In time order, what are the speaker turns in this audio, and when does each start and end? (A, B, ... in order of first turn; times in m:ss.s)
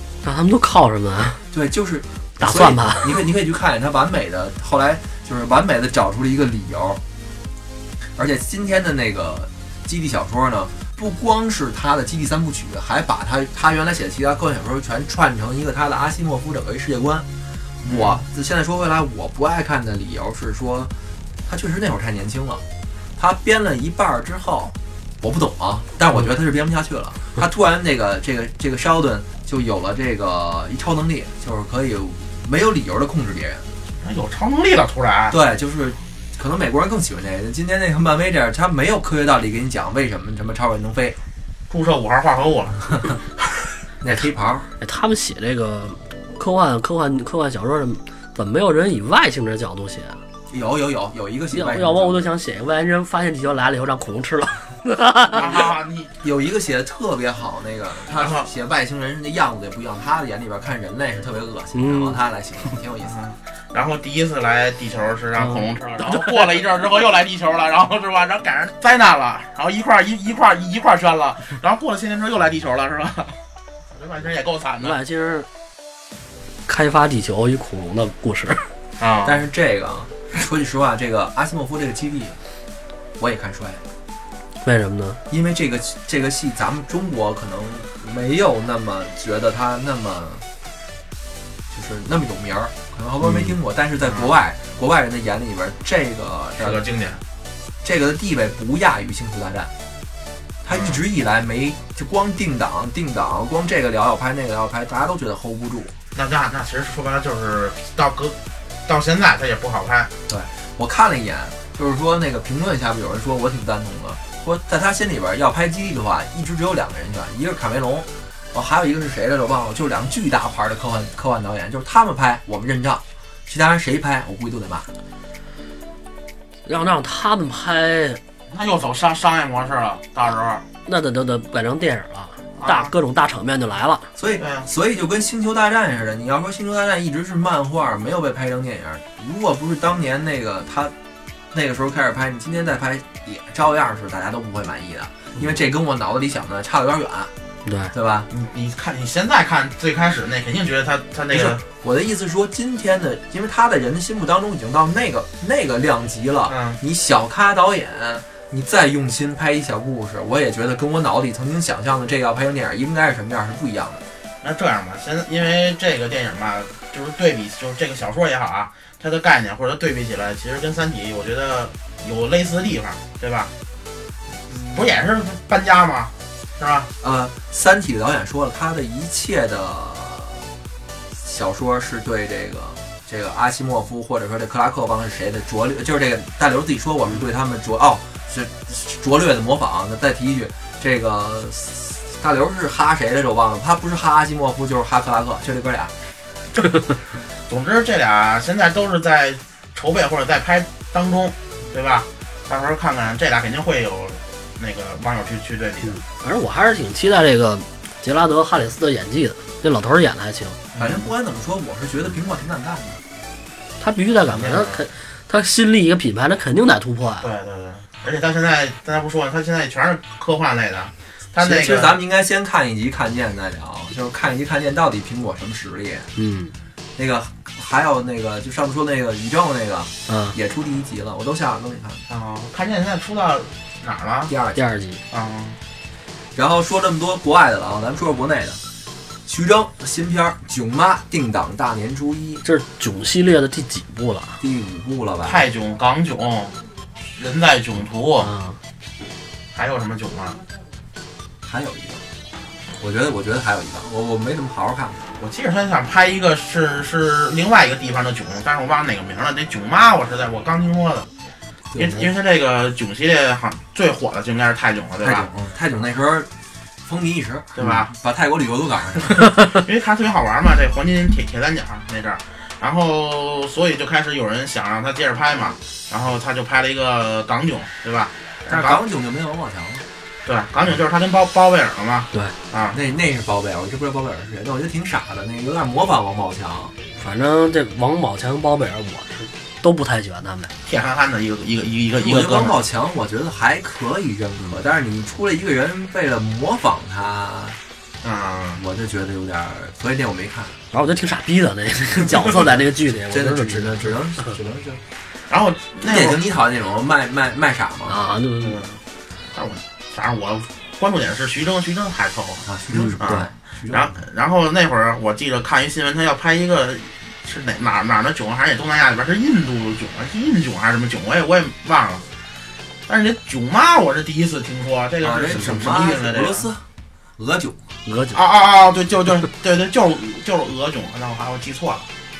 0:00.2-0:01.4 A
0:01.5-0:07.0 B
0:02.4-0:03.2 A
0:08.2-0:17.2 B
0:17.8-0:20.9 B
0:17.8-0:18.2 C
0:21.4-0:22.6 B
0:23.2-0:33.6 B
0:34.0-0:35.4 C
0:35.3-0:41.2 B
0:41.7-0:43.2 C
0:44.0-0:44.7 B
0:44.8-0:50.2 A
0:50.5-0:52.2 B
0:51.5-0:55.6 A
0:55.3-0:56.1 C
0:56.2-1:03.2 B
0:58.1-0:58.5 C
1:01.7-1:02.2 A
1:03.0-1:13.4 C
1:05.4-1:06.3 A
1:13.9-1:15.0 C
1:14.8-1:15.5 A
1:16.6-1:18.7 A
1:19.0-1:19.4 C
1:19.2-1:22.4 B
1:23.2-1:23.8 B
1:24.6-1:25.2 A
1:25.3-1:30.4 B
1:31.7-1:36.8 B
1:33.2-1:33.5 A
1:34.0-1:34.3 C
1:36.6-1:37.2 C
1:37.8-1:39.7 B
1:40.6-1:46.0 B
1:40.7-1:41.0 C
1:46.1-1:50.1 C
1:50.3-2:04.9 B
2:06.6-2:08.2 A
2:08.5-2:10.6 C
2:10.8-2:14.1 A
2:12.6-2:12.9 C
2:14.2-2:20.9 B
2:14.4-2:14.7 C
2:21.5-2:27.3 B
2:27.6-2:27.9 A
2:27.9-2:28.3 B
2:28.3-2:31.6 C
2:31.3-2:44.0 B
2:36.5-2:36.8 C
2:44.4-2:53.5 C
2:54.6-2:56.9 C
2:57.0-3:00.5 B
3:01.2-3:15.9 B
3:17.5-3:26.0 C
3:25.8-3:30.6 A
3:30.7-3:31.1 C
3:30.8-3:33.0 B
3:33.8-3:37.3 A
3:34.3-3:34.9 C
3:37.2-3:42.0 C
3:41.4-3:46.1 B
3:46.2-3:46.5 A
3:47.0-3:52.0 B
3:50.1-3:50.4 A
3:52.1-3:54.3 C
3:54.3-3:54.6 B
3:54.5-3:55.0 A
3:55.1-3:55.6 C
3:56.3-3:58.6 B
3:59.2-4:02.4 B
4:02.4-4:04.4 A
4:04.4-4:05.4 B
4:05.2-4:06.6 C
4:07.1-4:08.3 C
4:08.2-4:08.6 A
4:09.5-4:10.4 C
4:11.4-4:12.0 B
4:12.8-4:15.0 B
4:15.2-4:21.1 C
4:21.7-4:22.1 B
4:21.8-4:25.3 C
4:25.0-4:26.3 B
4:26.8-4:29.4 B
4:27.6-4:27.9 C
4:29.1-4:38.8 C
4:38.5-4:39.8 B
4:40.2-4:42.8 C
4:42.7-4:46.7 B
4:47.0-4:50.5 A
4:50.6-4:52.6 C
4:52.0-4:57.6 B
4:58.0-4:58.6 C
4:58.6-5:00.6 B
5:00.7-5:04.3 A
5:03.1-5:04.8 B
5:05.3-5:06.2 C
5:05.8-5:08.1 B
5:07.9-5:08.6 A
5:08.4-5:08.8 C
5:09.3-5:12.4 C
5:12.4-5:13.9 B
5:12.7-5:13.2 A
5:13.0-5:22.0 C
5:22.9-5:26.5 C
5:25.0-5:26.6 B
5:27.2-5:27.6 B
5:27.8-5:28.2 A
5:28.1-5:31.9 C